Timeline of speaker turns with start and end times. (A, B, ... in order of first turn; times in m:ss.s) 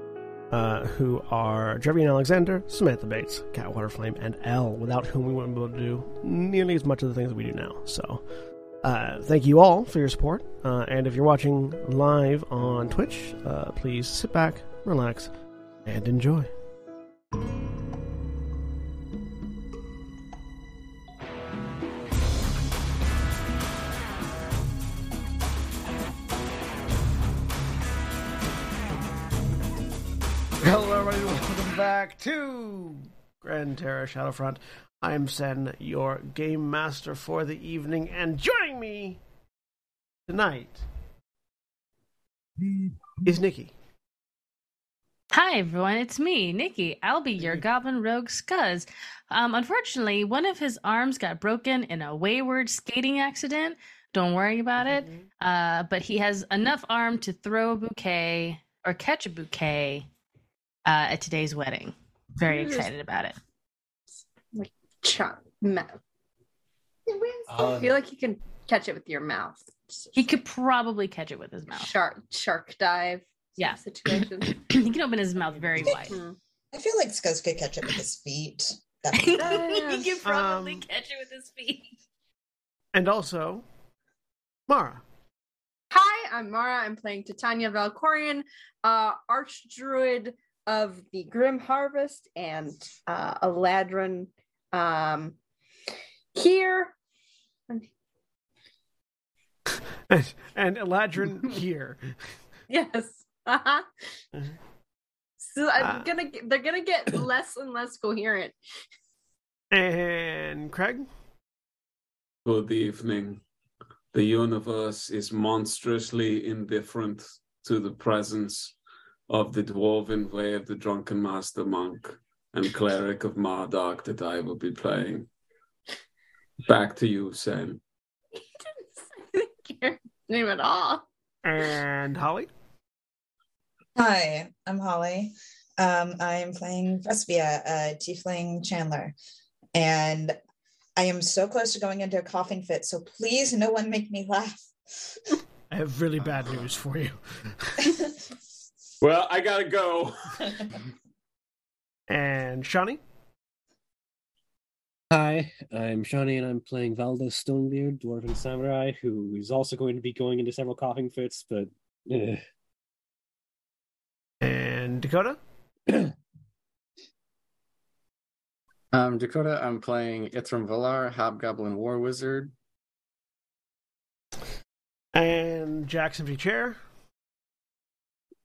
0:00.5-0:08.2 A
0:08.8-0:15.3 A
0:15.9-0:16.5 A
0:30.6-0:39.2 A
0:40.3-0:40.8 A
0:43.2-0:43.7 A
0:45.3-1:00.1 B
1:00.9-1:03.4 B
1:02.5-1:02.9 C
1:04.5-1:06.0 C
1:07.1-1:10.4 C
1:07.5-1:08.0 D
1:10.2-1:11.9 B
1:11.7-1:14.7 C
1:13.6-1:16.2 B
1:15.9-1:16.4 C
1:16.7-1:19.7 E
1:19.1-1:21.9 B
1:19.4-1:20.2 C
1:20.2-1:20.9 A
1:22.9-1:23.6 A
1:24.7-1:25.0 A
1:25.9-1:35.4 C
1:36.4-1:37.0 C
1:40.1-1:42.2 A
1:42.7-1:43.9 C
1:45.4-1:48.6 C
1:45.8-1:46.1 A
1:49.7-1:51.1 A
1:52.4-1:53.4 D
1:54.1-1:58.8 D
1:59.3-2:05.3 D
2:06.7-2:07.8 D
2:08.6-2:11.0 C
2:11.4-2:12.5 A
2:14.0-2:19.1 E
2:19.7-2:20.4 E
2:21.0-2:24.7 E
2:25.7-2:27.9 A
2:29.0-2:30.7 D
2:32.1-2:33.0 A
2:35.1-2:42.4 F
2:44.4-2:45.4 A
2:48.9-2:52.5 G
2:55.2-2:56.8 A